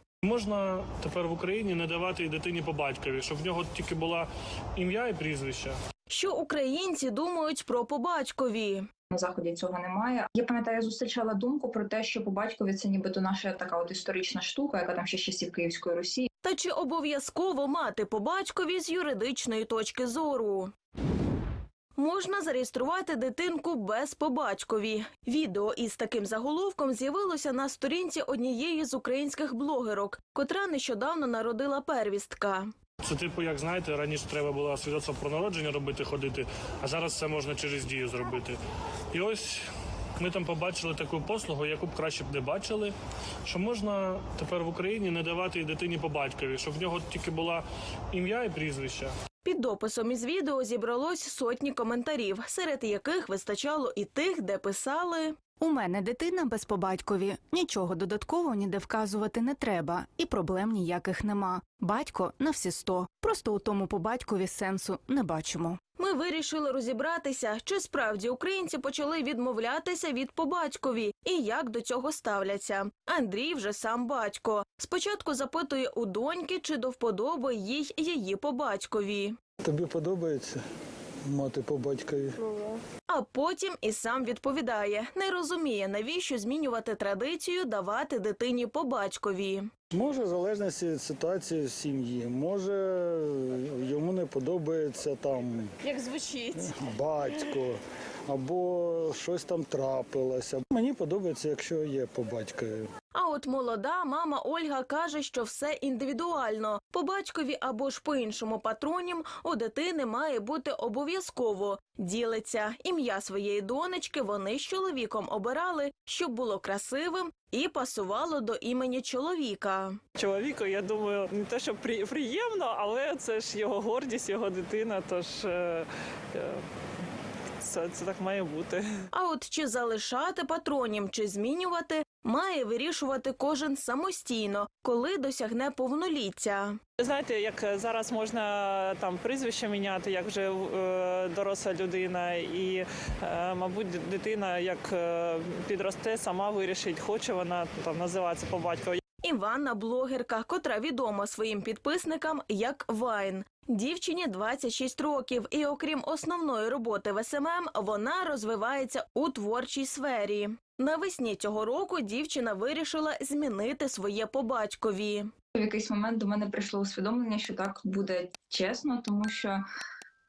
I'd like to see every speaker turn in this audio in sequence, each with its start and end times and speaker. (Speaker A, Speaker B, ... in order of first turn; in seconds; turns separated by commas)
Speaker A: 0.2-5.8, Speaker B: 6.1-8.8, Speaker C: 9.1-16.3, Speaker B: 16.4-20.7, Speaker B: 21.9-32.7, Speaker A: 33.0-38.6, Speaker A: 39.1-39.6, Speaker A: 40.2-42.9, Speaker A: 43.5-49.1, Speaker B: 49.4-55.4, Speaker D: 55.6-65.8, Speaker B: 66.0-79.3, Speaker E: 79.6-80.6, Speaker E: 81.2-82.5, Speaker B: 83.1-89.7, Speaker E: 89.9-95.7, Speaker B: 95.8-96.7, Speaker E: 96.6-102.9, Speaker B: 103.1-120.0, Speaker F: 120.2-126.6, Speaker F: 127.6-128.9, Speaker B: 129.1-136.8, Speaker F: 137.0-149.0, Speaker B: 149.2-165.3, Speaker C: 165.5-169.6